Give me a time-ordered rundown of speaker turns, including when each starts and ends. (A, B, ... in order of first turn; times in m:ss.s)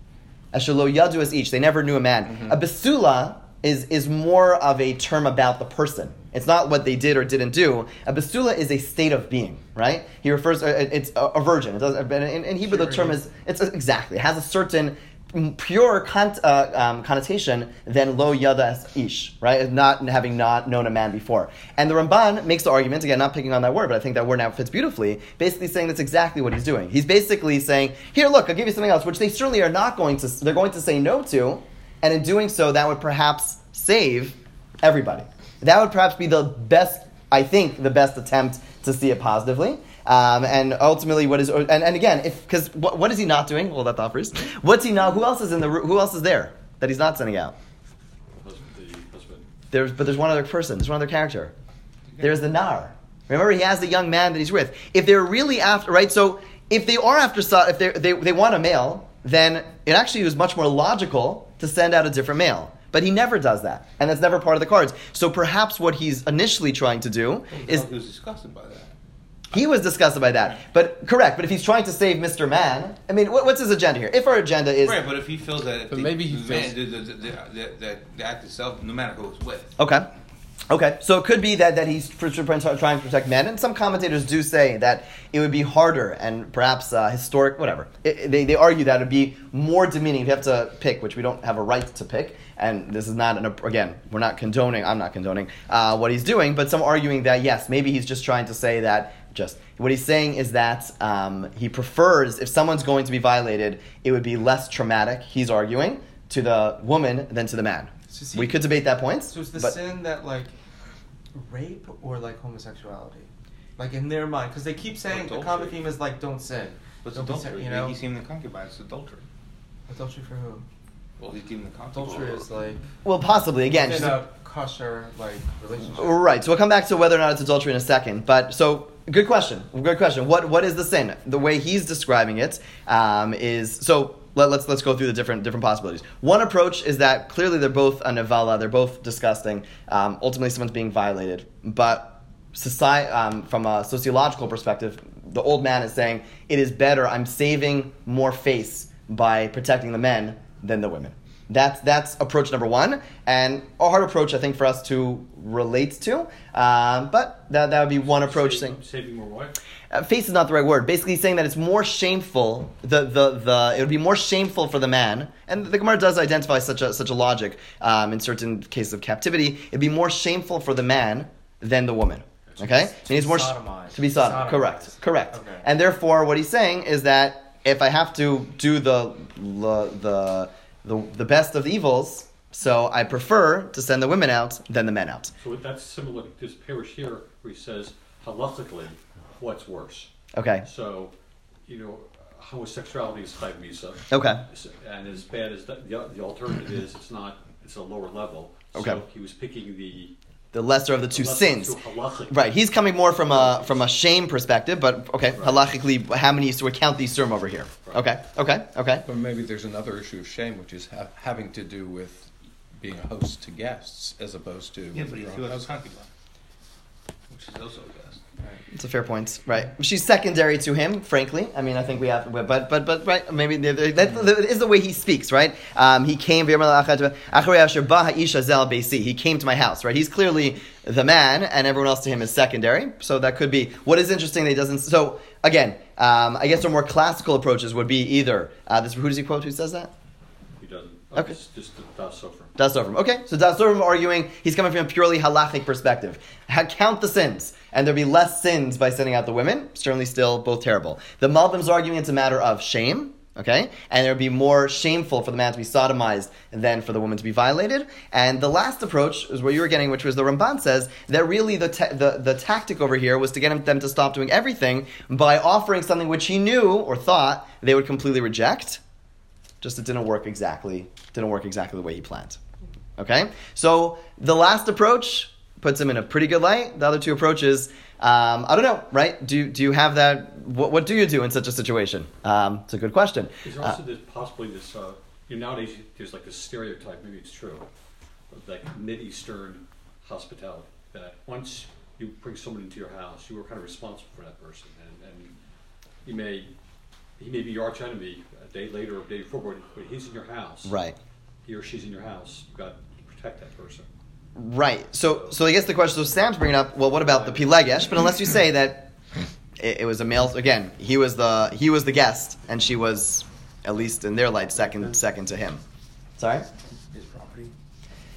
0:00.5-0:47.5 A
0:02.3-0:02.6 B
0:12.7-0:13.2 C
0:48.4-0:49.4 D
0:49.7-0:51.5 A
0:52.2-1:07.9 A
1:07.5-1:08.9 E
1:09.5-1:15.0 A
1:14.8-1:19.8 E
1:15.9-1:16.8 B
1:19.8-1:20.1 A
1:20.7-1:49.8 A
1:48.1-1:48.7 C
1:49.3-1:50.5 C
1:51.3-1:58.0 C
1:55.0-1:55.8 E
1:57.0-1:59.3 E
1:59.9-2:00.6 C
2:01.2-2:02.5 E
2:01.9-2:02.8 C
2:03.0-2:04.2 A
2:03.7-2:06.2 C
2:05.8-2:38.8 A
2:38.0-2:39.6 D
2:39.9-3:05.3 A
2:52.6-2:55.7 C
3:05.4-3:11.1 D
3:10.3-3:10.6 A
3:11.7-3:20.1 D
3:14.1-3:14.4 A
3:18.7-3:19.0 A
3:20.5-3:21.8 A
3:21.1-3:23.9 D
3:22.3-3:29.0 A
3:25.3-3:25.7 D
3:29.0-3:35.7 B
3:34.9-3:36.1 E
3:37.3-3:38.2 E
3:38.7-3:59.9 A
4:00.6-4:02.5 D
4:02.6-4:28.8 A
4:29.6-4:32.4 A
4:33.0-4:43.8 A
4:43.4-4:47.7 D
4:48.3-4:55.3 D
4:56.0-4:56.5 D
4:57.2-5:00.8 D
5:00.6-5:01.0 A
5:01.4-5:03.8 D
5:04.4-5:08.9 A
5:07.1-5:07.5 D
5:09.6-5:15.6 A
5:16.2-5:16.4 A
5:16.9-5:17.5 E